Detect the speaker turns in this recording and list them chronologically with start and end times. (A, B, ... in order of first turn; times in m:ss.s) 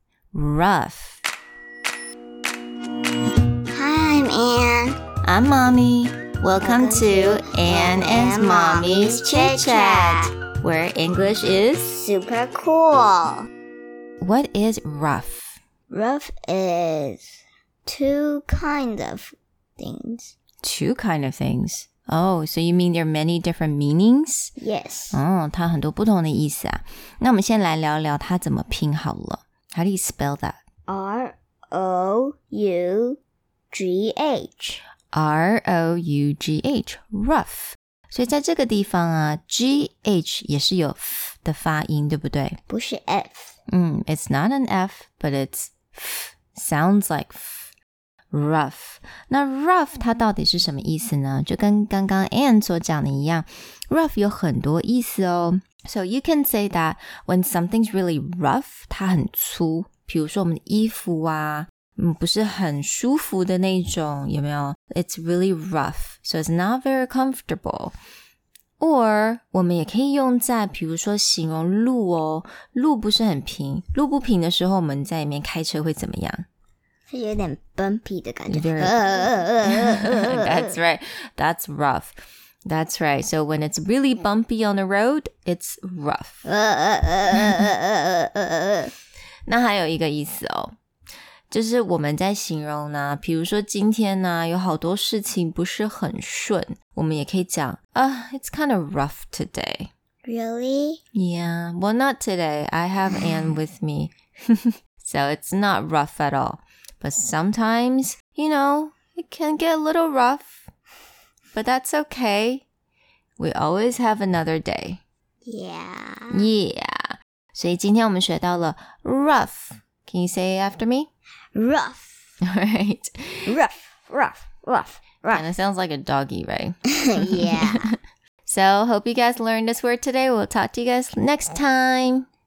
0:00.3-0:01.2 A
0:03.7-0:05.0 B
0:05.2-0:12.0 A
0:06.6-0:10.3 B
0:12.0-0:13.5 B
0:14.2-0:15.6 A
0:15.9-0:20.4 B
0:20.6-0:24.5 A
0:24.6-0:25.2 B
0:25.1-0:30.6 A
0:30.9-0:33.2 B
0:33.7-0:34.8 B
0:35.1-0:42.6 A
0:42.7-0:43.6 B
0:43.7-0:47.7 A
0:48.3-1:08.0 A
1:08.8-1:16.5 A
1:17.1-1:20.7 B
1:18.5-1:22.1 A
1:22.7-1:26.5 A
1:26.4-1:28.9 B
1:29.5-1:30.7 A
1:31.5-1:39.9 A
1:40.2-1:41.0 B
1:41.1-1:50.7 A
1:43.2-1:43.5 B
1:51.5-1:52.6 A
1:53.4-1:55.0 A
1:55.5-1:56.5 B
1:56.3-2:01.1 A
2:01.6-2:02.2 B
2:02.4-2:03.4 A
2:03.5-2:05.6 B
2:05.3-2:12.3 A
2:07.0-2:07.9 B